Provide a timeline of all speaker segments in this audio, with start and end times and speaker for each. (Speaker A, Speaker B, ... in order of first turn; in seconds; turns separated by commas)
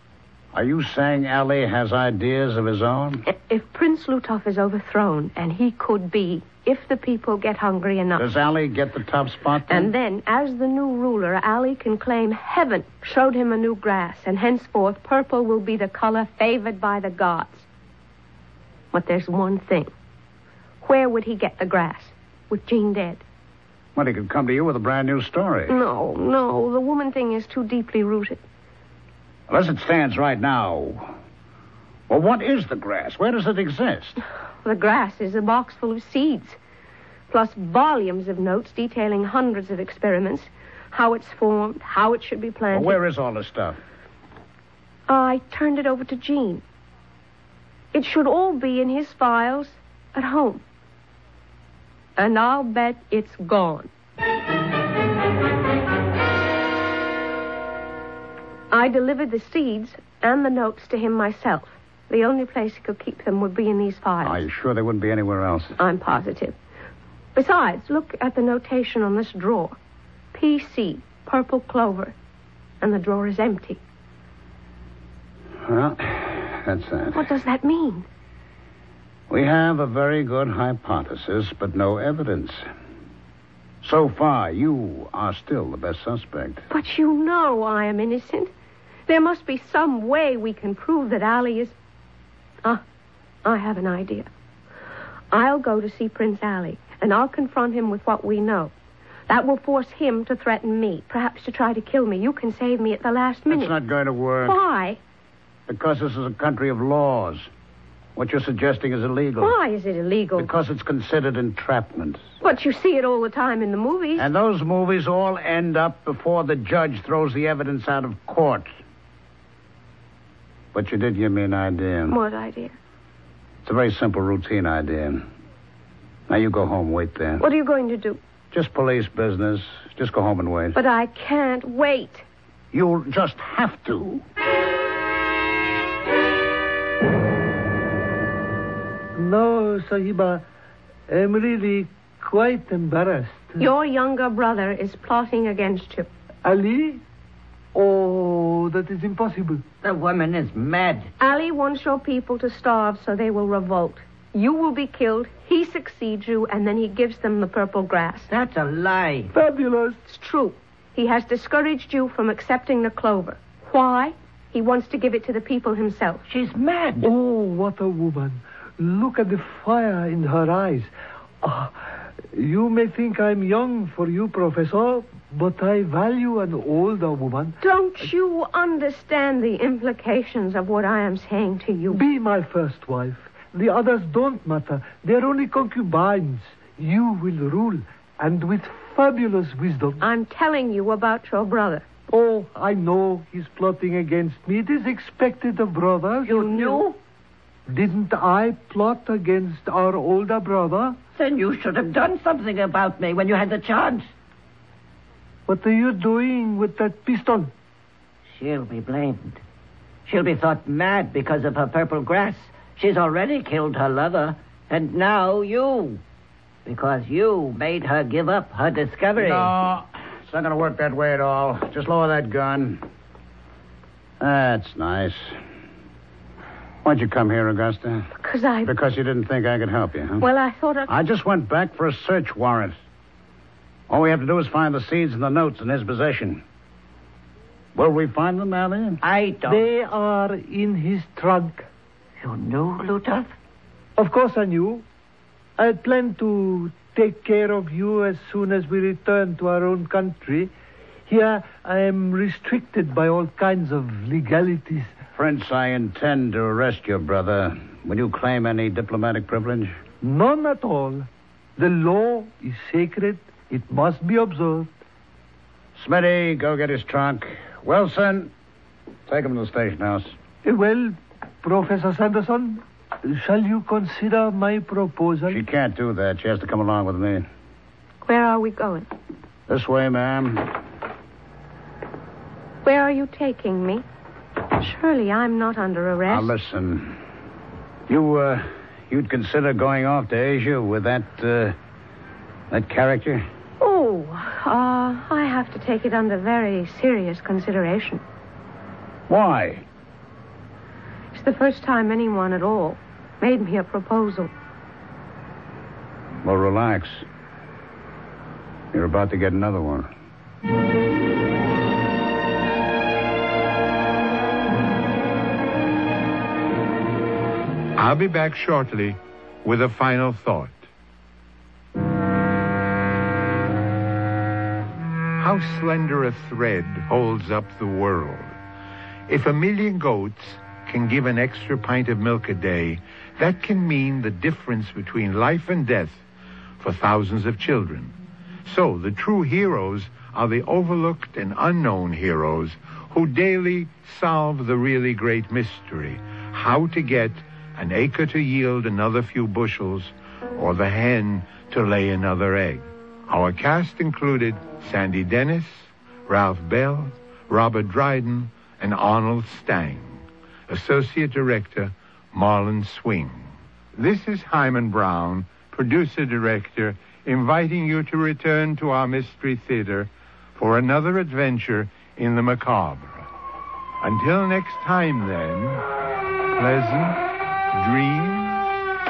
Speaker A: 0.5-3.2, Speaker B: 3.3-8.3, Speaker A: 8.2-9.9, Speaker B: 9.7-17.7, Speaker B: 18.9-19.9, Speaker B: 20.8-23.2, Speaker A: 23.9-25.8, Speaker B: 25.7-28.4, Speaker A: 29.5-31.1, Speaker A: 32.1-34.2, Speaker B: 34.6-36.6, Speaker B: 37.3-43.0, Speaker A: 42.7-43.8, Speaker B: 45.1-46.6, Speaker B: 47.9-50.6, Speaker B: 52.2-53.9, Speaker B: 58.7-64.4, Speaker A: 64.2-65.8, Speaker B: 65.8-66.6, Speaker B: 67.3-69.8, Speaker B: 70.3-72.2, Speaker B: 72.8-73.8, Speaker A: 75.6-77.3, Speaker B: 77.1-78.0, Speaker A: 79.3-82.7, Speaker A: 83.8-86.6, Speaker B: 86.7-88.5, Speaker B: 89.1-91.8, Speaker B: 93.4-94.3, Speaker B: 95.3-98.7, Speaker B: 99.3-103.8, Speaker A: 103.5-104.6, Speaker B: 104.5-105.0, Speaker A: 105.7-107.5, Speaker A: 108.2-109.6, Speaker B: 109.4-110.5, Speaker A: 110.4-112.2, Speaker B: 112.4-114.3, Speaker A: 114.2-118.7, Speaker A: 120.7-122.2, Speaker B: 122.1-122.7, Speaker A: 123.6-125.2, Speaker A: 126.3-127.4, Speaker B: 127.4-128.2, Speaker A: 128.5-130.8, Speaker B: 130.7-132.3, Speaker A: 132.7-134.2, Speaker C: 139.2-140.4, Speaker C: 141.1-143.7, Speaker B: 143.6-146.1, Speaker C: 146.4-147.0, Speaker C: 147.7-149.6, Speaker D: 149.8-151.1, Speaker B: 151.2-158.3, Speaker D: 158.3-159.3, Speaker C: 159.3-160.0, Speaker B: 160.1-166.2, Speaker D: 166.3-167.1, Speaker C: 167.0-170.9, Speaker C: 171.4-171.7, Speaker C: 172.3-177.6, Speaker B: 177.6-182.0, Speaker C: 181.9-190.0, Speaker B: 190.0-191.8, Speaker C: 192.1-196.8, Speaker D: 196.2-197.0, Speaker C: 197.7-201.0, Speaker D: 201.2-204.1, Speaker C: 205.5-207.5, Speaker D: 208.3-209.4, Speaker D: 210.1-216.0, Speaker D: 216.7-219.5, Speaker A: 219.2-222.8, Speaker A: 224.2-225.4, Speaker A: 226.8-228.1, Speaker B: 228.2-228.7, Speaker A: 228.7-230.2, Speaker B: 230.2-230.9, Speaker A: 230.9-232.8, Speaker A: 233.9-236.4, Speaker A: 237.8-239.0, Speaker D: 239.0-239.7, Speaker C: 239.5-241.7, Speaker D: 242.2-243.3, Speaker C: 244.0-244.8, Speaker C: 245.6-250.5, Speaker C: 251.1-254.9, Speaker A: 255.2-259.8, Speaker C: 260.0-264.7, Speaker A: 265.8-268.3, Speaker A: 269.1-270.1, Speaker C: 270.4-275.4, Speaker A: 275.3-277.3, Speaker B: 278.0-278.9, Speaker A: 279.5-280.6, Speaker B: 282.6-283.8, Speaker B: 284.6-286.3, Speaker A: 286.1-287.0, Speaker A: 287.9-291.6, Speaker A: 292.5-293.2, Speaker B: 293.6-298.0, Speaker A: 299.1-299.6, Speaker B: 301.1-304.3, Speaker A: 306.2-307.1, Speaker A: 308.7-309.9, Speaker E: 317.8-320.6, Speaker E: 325.2-328.3, Speaker E: 329.1-336.0, Speaker E: 336.6-337.9, Speaker E: 338.4-373.0, Speaker E: 373.8-375.6, Speaker E: 376.3-377.0, Speaker E: 377.5-378.5